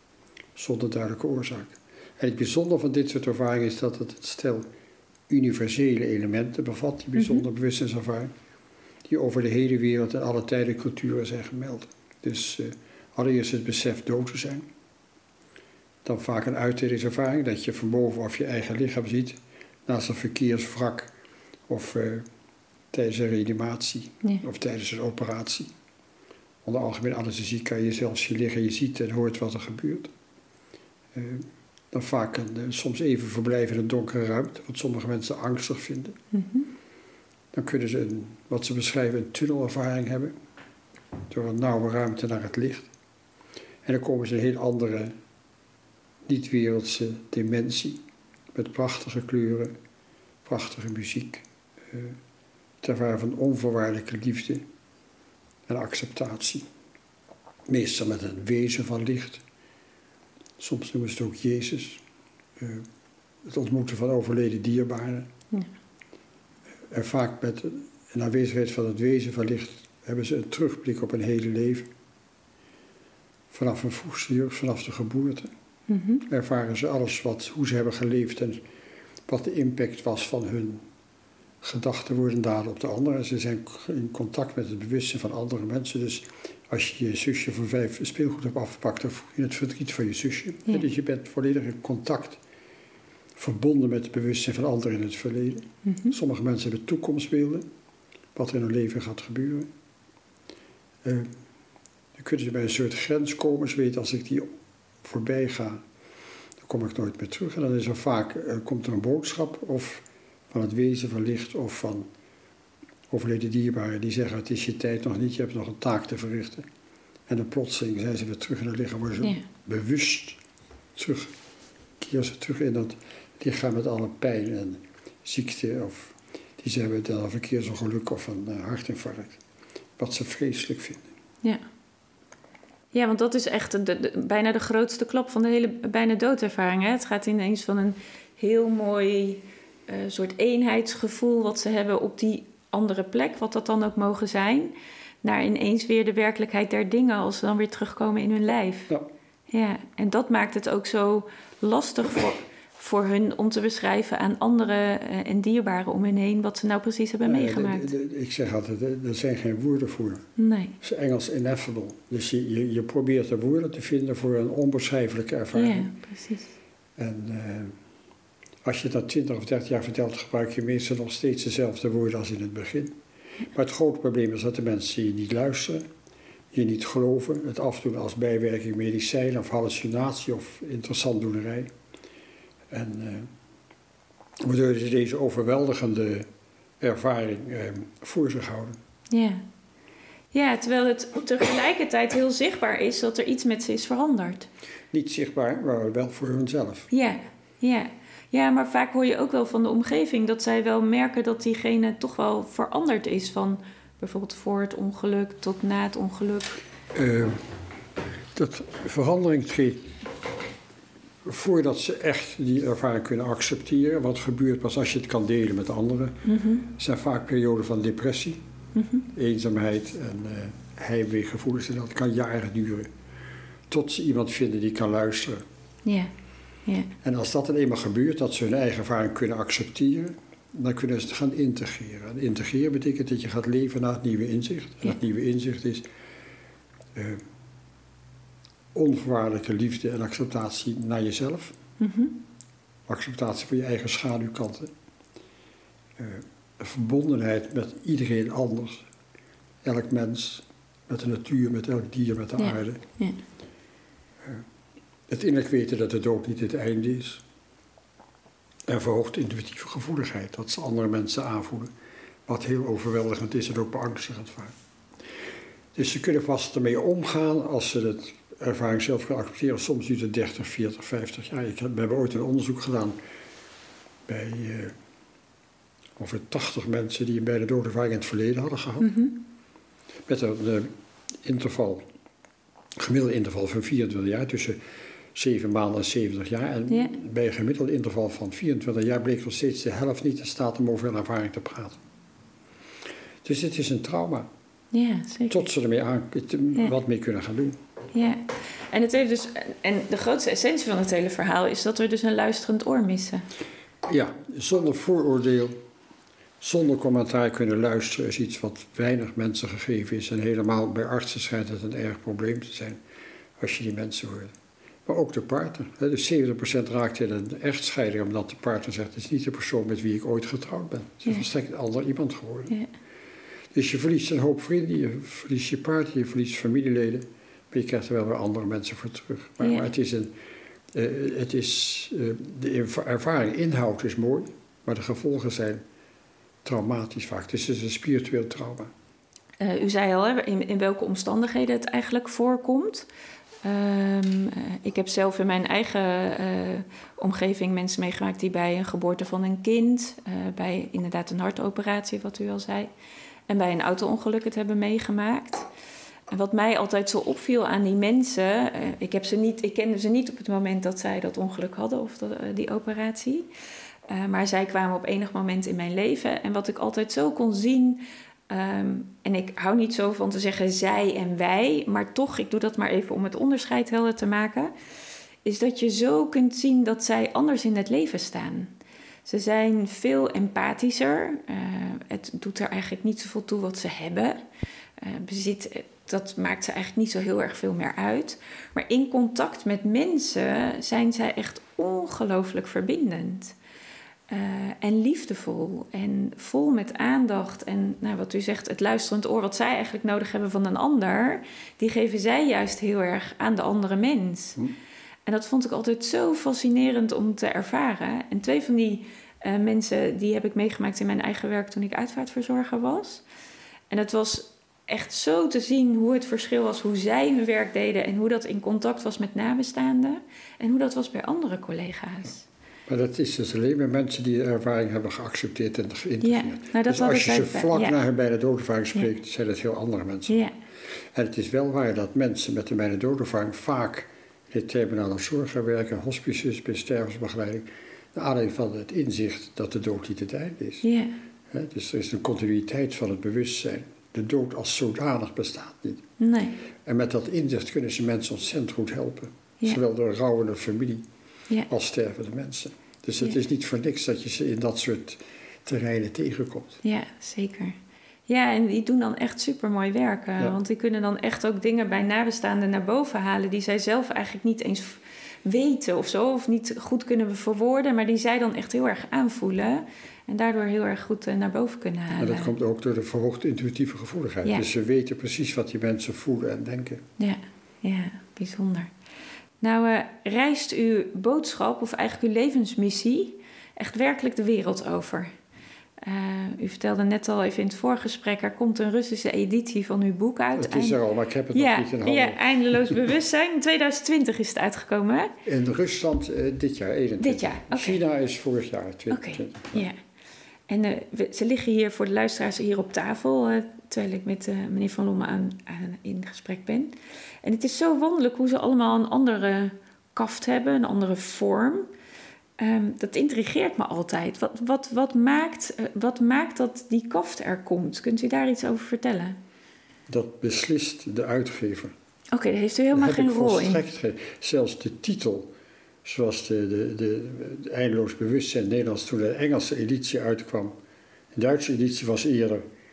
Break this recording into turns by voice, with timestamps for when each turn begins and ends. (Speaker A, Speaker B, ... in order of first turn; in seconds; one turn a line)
Speaker A: 0.6-4.7
Speaker A: 5.3-8.3
Speaker B: 7.2-7.4
Speaker A: 9.1-14.7
Speaker A: 16.0-21.1
Speaker A: 21.7-22.2
Speaker A: 22.9-25.7
Speaker A: 26.6-30.1
Speaker A: 31.1-36.2
Speaker B: 36.3-36.7
Speaker A: 37.5-40.3
Speaker A: 41.3-42.9
Speaker A: 43.8-45.1
Speaker A: 46.3-48.0
Speaker A: 48.5-49.7
Speaker A: 50.4-52.2
Speaker A: 52.8-54.6
Speaker A: 55.6-56.6
Speaker A: 57.7-59.4
Speaker A: 60.6-62.0
Speaker A: 62.6-62.9
Speaker A: 63.4-65.3
Speaker A: 66.9-71.9
Speaker A: 73.5-75.5
Speaker B: 75.9-76.2
Speaker A: 76.3-78.6
Speaker A: 79.3-80.8
Speaker A: 81.6-92.4
Speaker A: 93.3-97.7
Speaker B: 95.8-96.1
Speaker A: 98.3-99.7
Speaker A: 101.0-101.3
Speaker A: 102.2-104.5
Speaker A: 105.0-105.8
Speaker A: 106.6-112.1
Speaker A: 113.1-116.7
Speaker A: 117.3-120.4
Speaker B: 119.2-119.4
Speaker A: 121.0-121.3
Speaker A: 122.0-129.4
Speaker A: 130.0-131.1
Speaker B: 132.9-148.9
Speaker B: 149.5-157.9
Speaker A: 157.2-160.2
Speaker B: 160.4-160.8
Speaker A: 160.8-165.9
Speaker B: 165.5-166.5
Speaker A: 167.0-167.8
Speaker A: 168.6-173.0
Speaker A: 173.5-175.9
Speaker A: 176.5-181.7
Speaker A: 182.7-183.3
Speaker A: 184.4-186.3
Speaker A: 186.8-188.8
Speaker B: 189.1-189.4
Speaker B: 190.3-194.5
Speaker A: 194.9-196.9
Speaker B: 196.9-206.6
Speaker A: 206.9-207.6
Speaker A: 208.3-209.9
Speaker A: 211.2-218.4
Speaker B: 216.2-216.7
Speaker B: 218.7-219.1
Speaker A: 219.1-222.9
Speaker A: 223.7-225.4
Speaker B: 225.8-226.1
Speaker B: 226.7-226.9
Speaker A: 227.0-235.8
Speaker A: 236.9-237.2
Speaker A: 238.7-241.6
Speaker B: 241.8-242.2
Speaker A: 242.9-244.7
Speaker A: 246.0-248.8
Speaker A: 249.6-252.8
Speaker B: 252.4-253.2
Speaker A: 255.1-257.2
Speaker A: 258.7-261.7
Speaker A: 262.3-264.5
Speaker A: 265.7-272.9
Speaker A: 274.1-274.8
Speaker A: 276.0-278.9
Speaker B: 278.8-279.1
Speaker A: 280.1-280.7
Speaker A: 281.2-281.8
Speaker A: 282.8-284.6
Speaker A: 285.1-291.8
Speaker A: 293.2-294.3
Speaker B: 294.7-295.4
Speaker A: 295.3-297.6
Speaker B: 297.9-303.2
Speaker A: 303.8-305.6
Speaker A: 306.4-312.8
Speaker A: 313.4-314.3
Speaker A: 314.9-322.6
Speaker A: 323.5-330.1
Speaker B: 329.4-329.7
Speaker A: 330.7-335.6
Speaker A: 336.4-338.7
Speaker B: 339.4-342.9
Speaker B: 343.4-352.7
Speaker B: 353.3-355.5
Speaker B: 356.1-363.3
Speaker B: 363.9-374.5
Speaker B: 375.2-378.5
Speaker B: 379.0-384.2
Speaker B: 384.8-393.4
Speaker B: 394.1-404.4
Speaker B: 405.1-413.0
Speaker B: 413.7-422.3
Speaker A: 422.7-430.3
Speaker B: 426.0-427.8
Speaker B: 430.1-430.3
Speaker A: 430.9-440.6
Speaker B: 440.6-440.9
Speaker A: 441.3-445.9
Speaker B: 446.0-446.4
Speaker A: 446.6-450.9
Speaker A: 451.5-456.6
Speaker B: 456.6-457.6
Speaker B: 458.1-472.3
Speaker A: 472.0-476.8
Speaker B: 477.0-478.7
Speaker B: 479.4-485.1
Speaker B: 485.8-490.8
Speaker A: 490.4-492.7
Speaker B: 491.3-495.1
Speaker A: 495.2-499.7
Speaker B: 497.0-497.8
Speaker B: 498.9-499.8
Speaker B: 500.5-511.7
Speaker B: 512.4-519.2
Speaker A: 519.9-521.7
Speaker B: 522.1-523.6
Speaker A: 522.7-525.3
Speaker A: 525.8-530.5
Speaker A: 531.1-532.4